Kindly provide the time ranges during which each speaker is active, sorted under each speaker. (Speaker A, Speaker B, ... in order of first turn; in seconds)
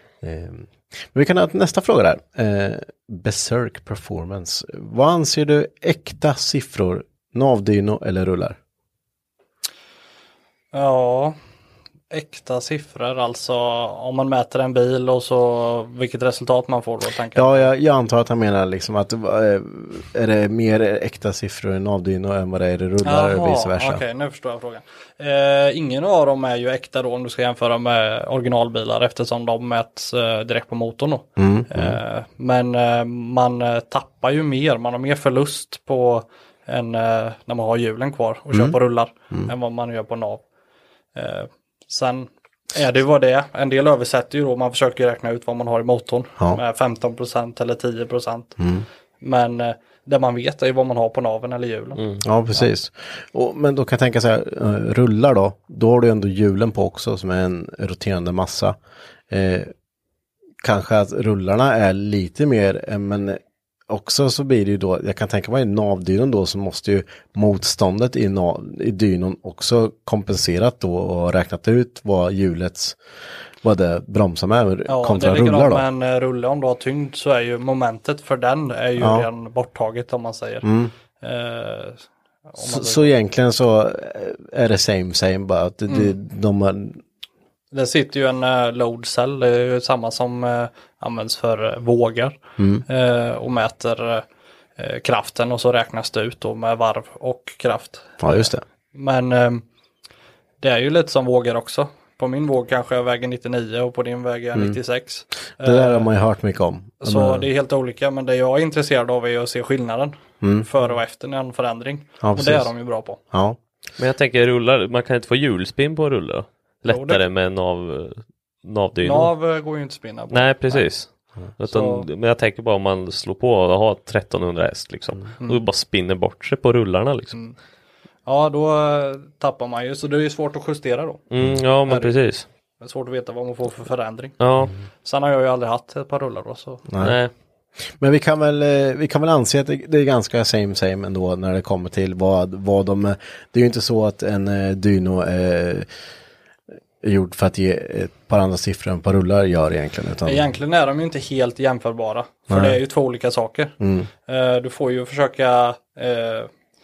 Speaker A: 0.2-8.6, 17.4-24.0, 31.4-32.0, 38.5-38.8, 48.6-48.9, 52.2-58.8, 59.3-59.7, 60.6-73.0, 73.6-75.8, 79.0-79.3, 80.6-80.9, 82.6-87.0, 92.6-92.8, 98.2-98.6, 105.6-107.5, 110.4-110.7, 112.2-112.7, 113.3-113.6, 136.9-137.2, 137.8-145.9, 147.0-150.5, 152.5-152.8, 153.8-154.1
Speaker B: 10.7-11.4, 12.1-17.7, 23.0-40.4, 41.1-48.6, 49.2-52.0, 74.9-80.7, 81.2-83.1, 85.9-86.2, 87.7-94.2, 94.8-99.6, 100.6-106.1, 107.0-113.2, 116.9-117.2, 119.0-121.0, 121.7-122.1, 128.2-131.2, 131.9-132.1, 132.8-134.4, 135.0-136.8, 150.2-153.8, 154.3-156.5
Speaker C: 52.0-52.2, 114.0-119.3, 120.3-127.4, 131.3-132.5, 134.4-134.8, 137.0-137.3